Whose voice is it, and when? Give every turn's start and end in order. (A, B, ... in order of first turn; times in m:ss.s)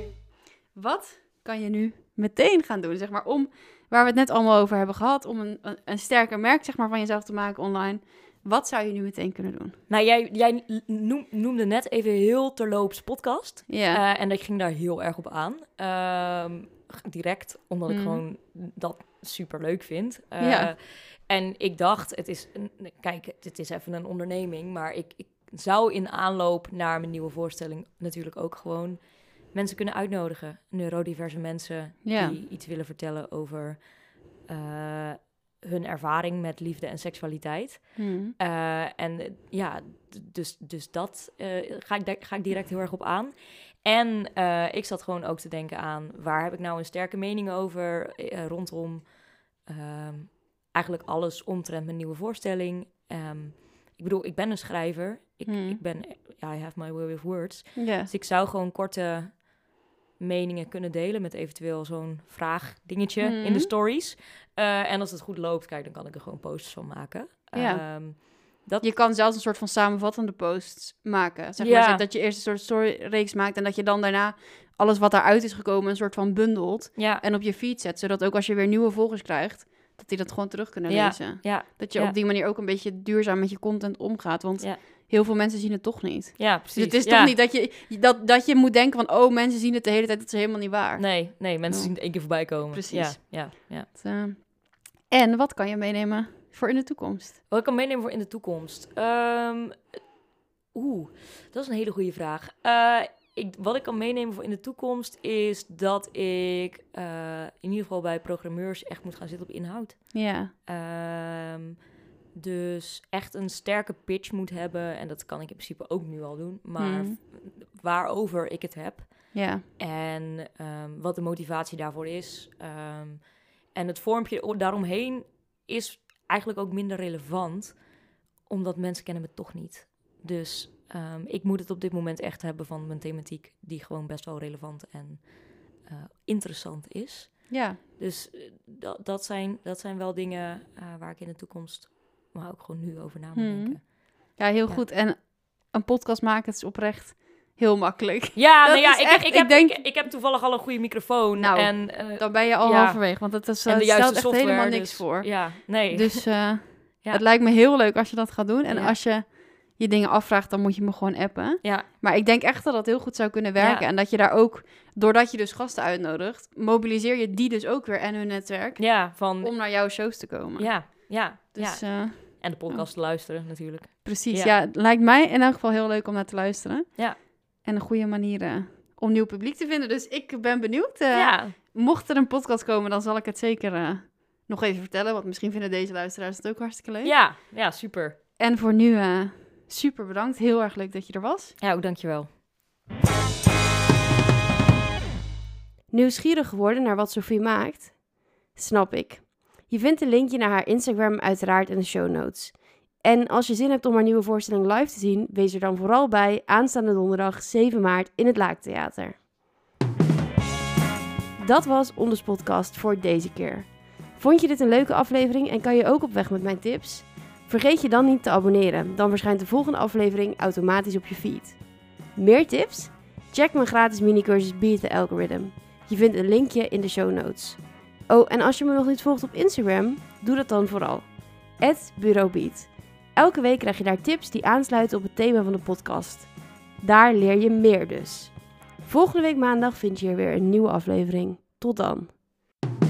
0:00.7-0:09.8 A
0:09.9-0:59.5 B
0:13.7-0:14.0 A
0:17.9-0:18.2 A
0:20.4-0:20.7 A
0:32.0-0:32.4 A
0:38.0-0:38.3 A
0:55.4-0:55.8 A
0:57.8-0:58.1 A
1:00.2-1:08.9 B
1:03.2-1:03.7 A
1:07.5-1:08.3 A
1:08.8-1:37.4 A
1:11.6-1:12.0 B
1:17.0-1:17.2 B
1:20.9-1:22.2 B
1:26.4-1:27.4 B
1:31.0-1:33.9 B
1:37.5-1:40.1 B
1:40.7-2:07.9 B
1:50.1-1:50.5 A
1:56.8-1:57.2 A
1:59.3-1:59.6 A
2:08.4-2:24.8 B
2:17.5-2:17.8 A
2:23.3-2:29.8 A
2:28.3-2:37.2 B
2:31.4-2:52.9 A
2:38.7-2:39.0 B
2:41.6-2:41.9 B
2:43.6-2:43.9 B
2:48.8-2:50.0 B
2:50.6-2:54.6 B
2:54.0-3:07.1 A
3:01.1-3:01.6 B
3:07.0-3:08.2 B
3:08.4-3:11.6 A
3:11.6-3:12.3 B
3:15.9-3:29.2 C
3:31.4-4:02.2 C